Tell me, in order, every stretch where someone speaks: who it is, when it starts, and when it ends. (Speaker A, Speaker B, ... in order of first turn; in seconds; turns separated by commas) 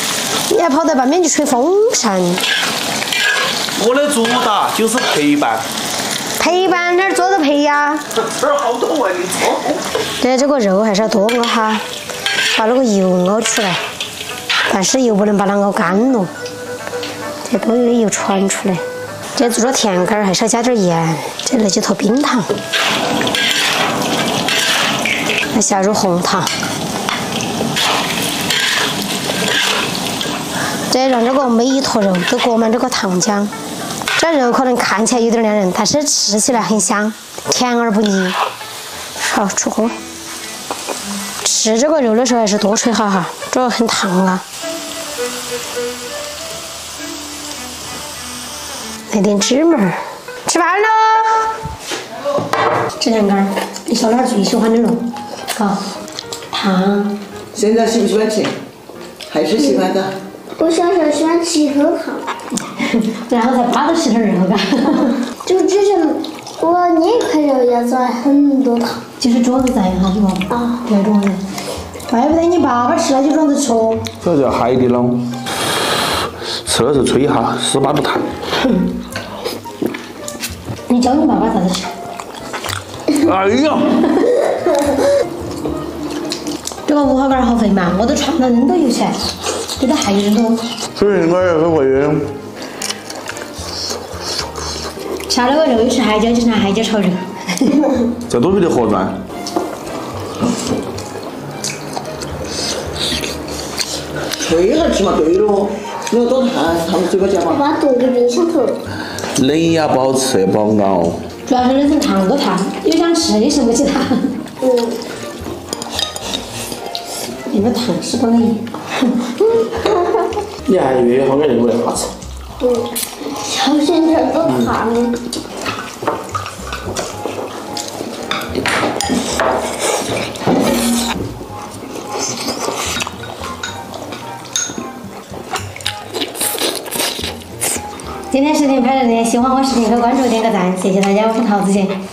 Speaker A: 0.5-2.4, Speaker B: 3.8-5.6, Speaker A: 6.4-8.0, Speaker B: 8.1-9.8, Speaker A: 10.2-11.8, Speaker A: 12.5-13.8, Speaker A: 14.7-16.3, Speaker A: 17.4-18.8, Speaker A: 19.3-22.5, Speaker A: 25.5-26.5, Speaker A: 30.9-33.5, Speaker A: 34.1-38.4, Speaker A: 39.2-40.0, Speaker A: 41.4-44.4, Speaker A: 49.1-51.5, Speaker A: 53.0-55.8, Speaker A: 56.5-57.1, Speaker C: 57.5-58.5, Speaker C: 59.3-60.1, Speaker D: 59.5-59.9, Speaker D: 60.6-62.3, Speaker A: 62.7-65.2, Speaker D: 65.4-69.0, Speaker A: 69.2-71.4, Speaker D: 70.5-70.8, Speaker A: 72.1-74.1, Speaker B: 74.2-75.2, Speaker B: 76.6-78.2, Speaker A: 80.9-81.9, Speaker B: 83.2-84.0, Speaker A: 86.9-89.3, Speaker A: 89.8-90.6, Speaker B: 91.0-92.3, Speaker A: 95.3-97.9, Speaker B: 98.3-99.1, Speaker C: 104.4-107.6, Speaker D: 107.5-108.8, Speaker B: 109.3-111.2, Speaker A: 111.5-114.3, Speaker D: 114.6-115.0, Speaker A: 117.5-118.8, Speaker D: 119.8-120.0, Speaker B: 120.7-122.1, Speaker D: 122.6-125.2, Speaker A: 138.3-142.0